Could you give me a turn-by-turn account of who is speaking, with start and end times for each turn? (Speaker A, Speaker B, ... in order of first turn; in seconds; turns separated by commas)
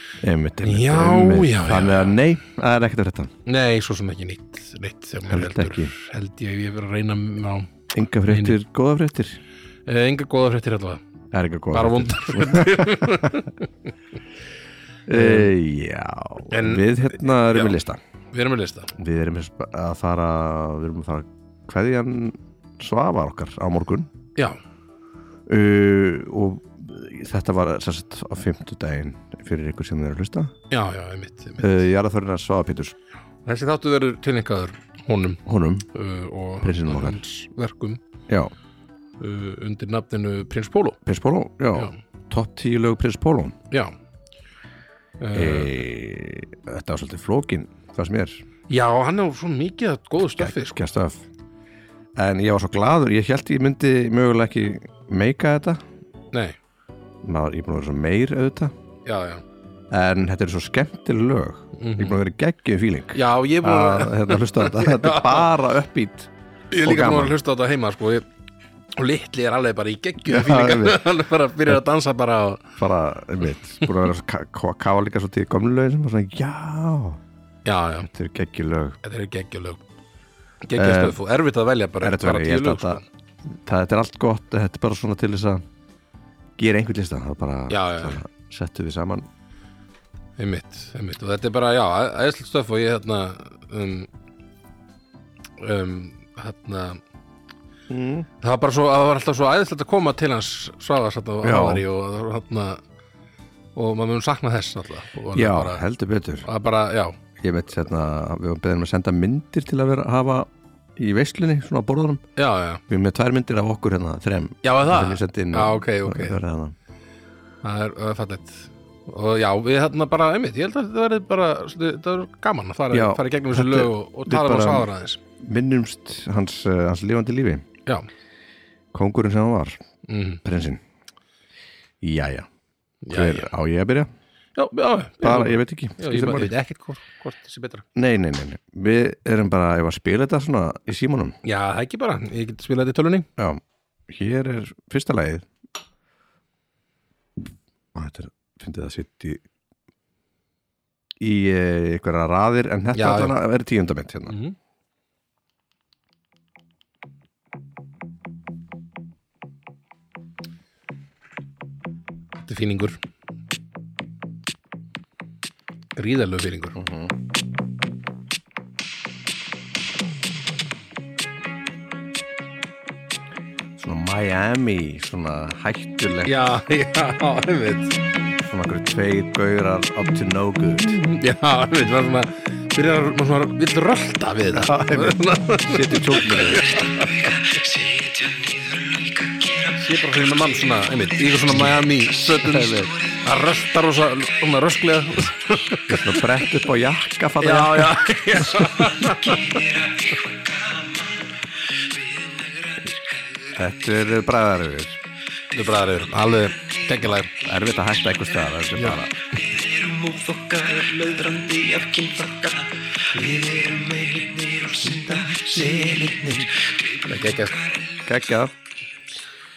Speaker A: 0.2-3.3, Speaker B: 0.6-2.2, Speaker B: 3.5-7.7, Speaker A: 5.3-5.9, Speaker A: 7.9-9.4, Speaker B: 8.3-8.6, Speaker B: 9.8-11.0, Speaker A: 11.3-13.4, Speaker B: 11.7-13.7, Speaker A: 15.1-18.0, Speaker B: 15.1-15.5, Speaker B: 16.5-17.8, Speaker B: 18.3-18.9, Speaker A: 18.9-24.1, Speaker A: 25.5-30.5, Speaker B: 30.7-31.8, Speaker A: 31.6-33.0, Speaker B: 33.4-38.0, Speaker A: 35.5-35.8, Speaker A: 36.6-37.2, Speaker B: 39.2-41.0, Speaker A: 41.0-43.5, Speaker B: 45.2-45.7, Speaker A: 45.3-48.4, Speaker B: 48.7-50.8, Speaker A: 50.2-51.2, Speaker A: 52.1-55.8, Speaker B: 56.3-56.6, Speaker A: 57.2-58.7, Speaker B: 59.0-59.4, Speaker A: 59.9-66.3, Speaker B: 61.8-62.2, Speaker B: 63.1-65.5, Speaker B: 66.7-68.2, Speaker A: 66.8-67.4, Speaker B: 68.9-72.7, Speaker A: 70.2-71.1, Speaker A: 72.8-77.2, Speaker B: 77.6-78.1, Speaker A: 78.0-79.0, Speaker B: 79.0-79.8, Speaker B: 80.6-83.0, Speaker A: 80.8-81.2, Speaker A: 82.0-85.6, Speaker A: 86.6-89.3, Speaker B: 87.7-88.2, Speaker B: 90.4-94.1, Speaker B: 95.6-97.0, Speaker A: 97.9-98.3, Speaker B: 98.4-102.8, Speaker A: 101.4-101.8, Speaker B: 103.8-105.8, Speaker A: 105.3-106.5, Speaker B: 106.4-107.2, Speaker A: 107.4-112.2, Speaker B: 112.3-112.8, Speaker A: 112.9-116.7, Speaker B: 114.6-116.4, Speaker B: 117.6-125.2, Speaker A: 122.9-127.6, Speaker A: 128.9-129.8, Speaker B: 130.1-130.4, Speaker A: 130.4-130.8, Speaker A: 132.0-132.5, Speaker B: 133.0-133.5, Speaker A: 133.1-134.1, Speaker B: 134.6-137.8, Speaker A: 135.2-136.5, Speaker A: 137.9-141.4, Speaker B: 141.4-143.3, Speaker A: 143.4-145.5, Speaker A: 147.9-149.4, Speaker A: 151.2-154.4, Speaker B: 152.9-153.4, Speaker B: 154.3-154.6, Speaker B: 162.4-163.0, Speaker B: 165.9-166.8, Speaker A: 166.7-167.1, Speaker A: 173.8-176.3, Speaker B: 176.2-177.9, Speaker A: 178.4-181.0, Speaker B: 180.8-187.4, Speaker A: 184.5-186.8, Speaker C: 186.6-193.4, Speaker B: 189.8-196.3, Speaker A: 192.2-192.9, Speaker A: 195.9-198.4, Speaker B: 197.4-199.6, Speaker C: 198.8-203.8, Speaker A: 203.5-205.0, Speaker B: 205.5-207.3, Speaker C: 206.3-206.9, Speaker A: 207.4-209.1, Speaker B: 208.8-209.0, Speaker C: 209.2-218.1, Speaker B: 217.0-217.6, Speaker A: 218.0-218.5